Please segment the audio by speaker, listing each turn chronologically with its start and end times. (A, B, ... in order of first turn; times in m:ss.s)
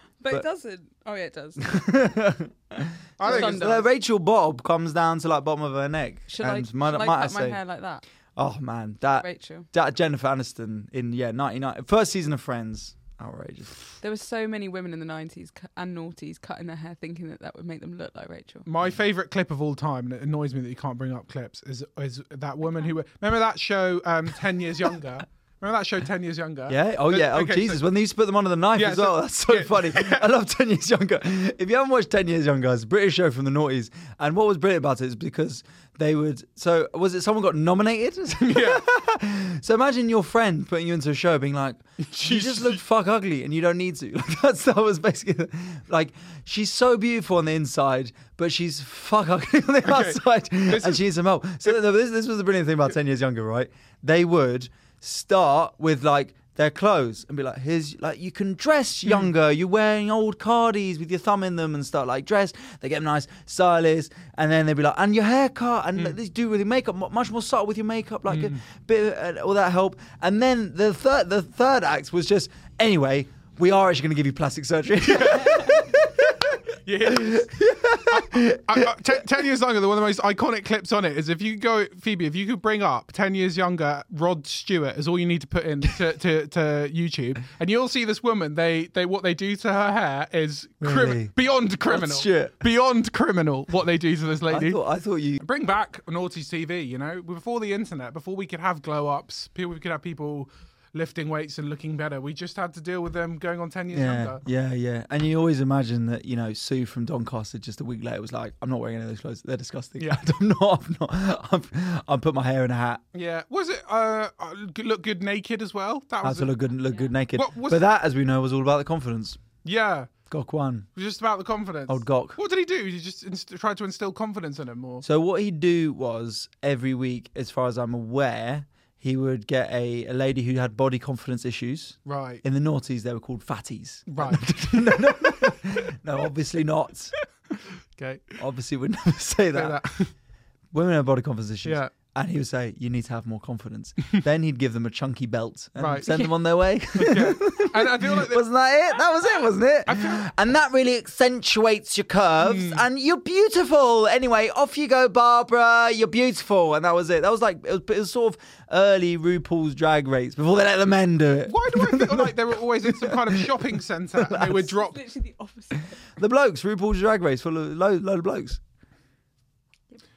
0:00.2-0:01.8 A
0:01.6-0:07.6 B
0:03.2-0:03.8 C
0:03.2-0:03.9 A
0:06.3-0:08.0 A
0:08.4-0:13.7 B
0:09.2-0:09.7 A
0:14.0-0:18.7 A
0:18.6-0:27.8 C
0:26.7-1:16.5 B
0:28.8-0:30.3 C
0:38.4-0:38.8 C
0:42.0-0:42.8 C
0:49.8-0:51.0 C
1:08.3-1:08.6 C
1:15.0-1:16.0 C
1:16.8-1:34.8 C
1:17.0-1:19.2 B
1:30.8-1:31.3 B
1:31.9-1:32.5 B
1:34.5-1:35.4 B
1:35.4-1:44.4 C
1:43.9-1:53.0 B
1:53.1-1:56.5 C
1:56.2-1:59.4 B
1:57.3-1:57.8 C
1:59.6-2:00.1 C
2:00.3-2:00.9 B
2:01.0-2:05.0 C
2:01.9-2:02.4 B
2:05.0-2:17.1 B
2:12.0-2:12.4 C
2:14.1-2:14.4 C
2:17.9-2:18.3 C
2:18.4-2:19.8 B
2:19.5-2:20.1 C
2:20.7-2:43.5 B
2:21.6-2:21.9 C
2:25.8-2:26.3 C
2:26.9-2:28.4 C
2:29.9-2:30.3 C
2:32.4-2:32.8 C
2:41.5-2:45.0 C
2:44.2-2:44.7 B
2:44.8-2:46.0 A
2:46.1-2:48.6 B